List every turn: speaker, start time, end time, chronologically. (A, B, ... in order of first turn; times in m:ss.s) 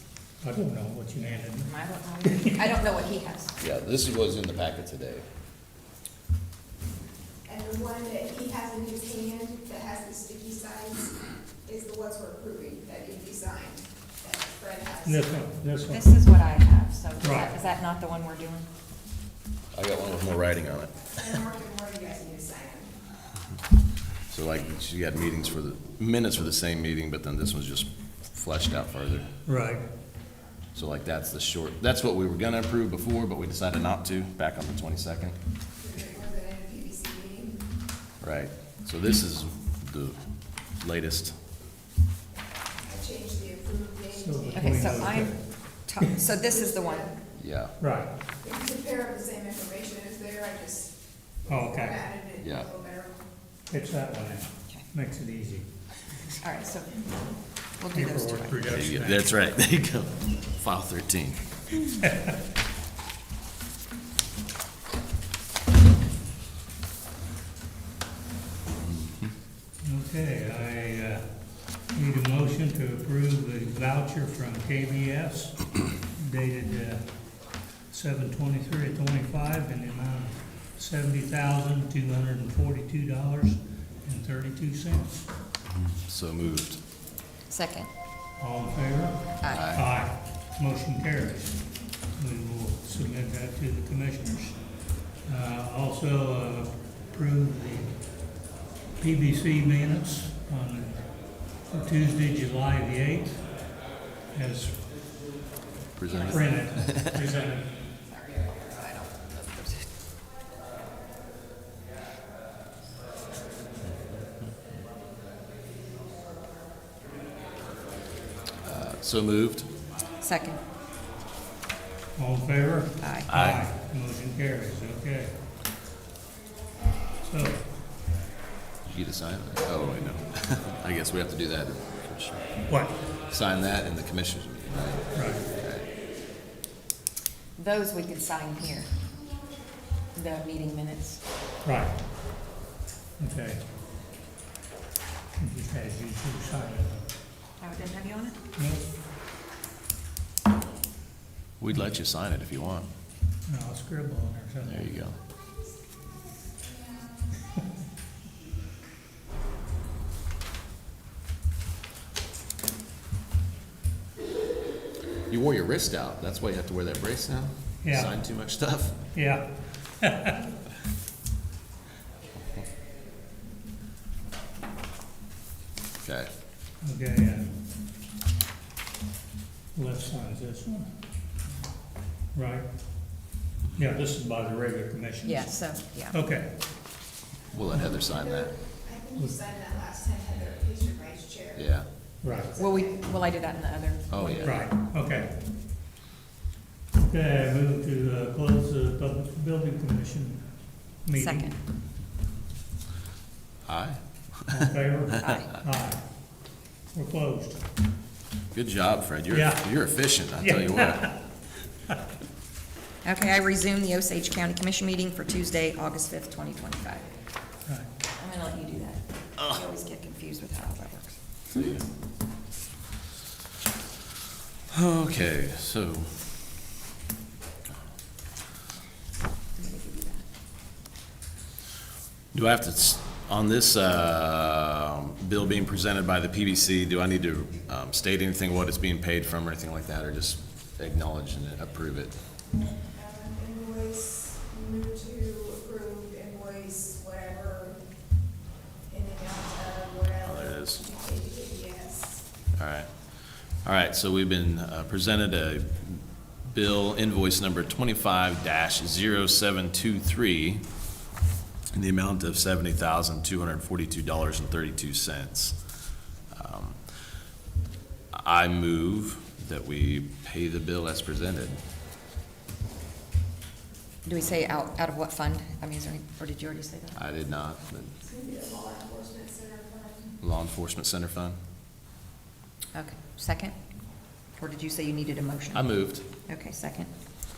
0:00.4-0:02.7 A
0:01.6-0:03.6 B
0:03.6-0:05.2 C
0:07.5-0:15.3 D
0:15.0-0:16.2 A
0:15.9-0:18.7 B
0:17.2-0:17.5 A
0:19.7-0:21.4 C
0:21.2-0:22.9 D
0:24.3-0:29.3 C
0:29.5-0:29.8 A
0:30.8-0:35.4 C
0:35.8-0:37.6 D
0:38.2-0:40.2 C
0:40.8-0:41.4 C
0:42.8-0:45.2 D
0:44.2-0:45.4 A
0:44.5-0:47.1 B
0:46.4-0:47.2 D
0:47.4-0:47.7 C
0:47.8-0:48.1 A
0:48.4-0:51.0 D
0:51.5-0:52.1 A
0:51.5-0:53.1 D
0:52.4-0:52.7 C
0:53.7-0:55.7 A
0:56.4-0:57.1 B
0:57.8-0:58.8 B
0:57.9-0:59.2 A
0:58.7-1:01.4 C
1:08.8-1:09.3 C
1:09.8-1:11.3 A
1:11.9-1:17.0 A
1:17.9-1:25.2 A
1:25.7-1:26.8 C
1:27.5-1:27.9 B
1:28.4-1:31.6 A
1:29.4-1:29.8 B
1:29.5-1:29.8 C
1:32.2-1:34.6 A
1:35.3-1:38.0 A
1:39.0-1:41.0 A
1:41.7-1:43.5 A
1:44.3-1:44.8 A
1:46.0-1:47.2 C
1:46.1-1:47.0 B
1:46.3-1:47.8 A
1:48.1-1:49.9 B
1:58.6-1:59.7 C
2:00.2-2:00.6 B
2:02.2-2:05.4 A
2:03.0-2:03.3 B
2:03.3-2:03.6 C
2:07.3-2:07.7 A
2:08.8-2:12.5 C
2:12.7-2:13.0 A
2:13.3-2:15.9 C
2:15.1-2:15.5 A
2:17.6-2:19.0 B
2:20.2-2:21.2 B
2:21.6-2:22.0 A
2:23.2-2:23.6 A
2:25.4-2:27.0 A
2:27.6-2:28.4 B
2:28.6-2:28.9 A
2:31.6-2:32.9 C
2:33.5-2:35.0 A
2:34.7-2:35.2 C
2:45.3-2:48.9 C
2:47.8-2:48.1 A
2:49.1-2:50.5 A
2:56.0-2:56.3 C
2:56.8-2:57.5 A
2:59.8-3:00.9 A
3:02.3-3:02.7 A
3:03.8-3:05.6 A
3:05.2-3:06.2 B
3:06.1-3:06.5 A
3:07.5-3:08.5 C
3:08.1-3:11.6 D
3:09.2-3:09.4 A
3:11.6-3:11.9 C
3:12.2-3:12.6 A
3:12.3-3:13.0 D
3:12.6-3:14.7 B
3:14.1-3:14.7 C
3:14.4-3:15.4 A
3:17.0-3:20.4 A
3:21.0-3:21.5 A
3:21.2-3:21.6 B
3:23.7-3:24.7 C
3:24.5-3:26.0 A
3:25.2-3:25.6 B
3:26.9-3:27.6 A
3:28.5-3:31.1 C
3:29.3-3:29.7 A
3:30.4-3:31.2 A
3:33.0-3:37.1 B
3:38.2-3:41.2 B
3:41.5-3:41.8 C
3:44.7-3:46.2 C
3:49.6-3:50.2 B
3:52.3-4:02.2 C
4:02.9-4:07.8 D
4:08.9-4:12.2 D
4:10.2-4:10.8 C
4:12.6-4:13.0 C
4:13.6-4:20.6 C
4:21.7-4:25.6 C
4:26.3-4:26.8 C
4:28.1-4:31.6 C
4:34.0-4:37.0 B
4:37.0-4:37.9 C
4:38.1-4:40.1 D
4:40.2-4:41.4 C
4:42.7-4:43.5 B
4:44.4-4:45.8 B
4:45.5-4:46.0 C
4:46.3-4:46.9 B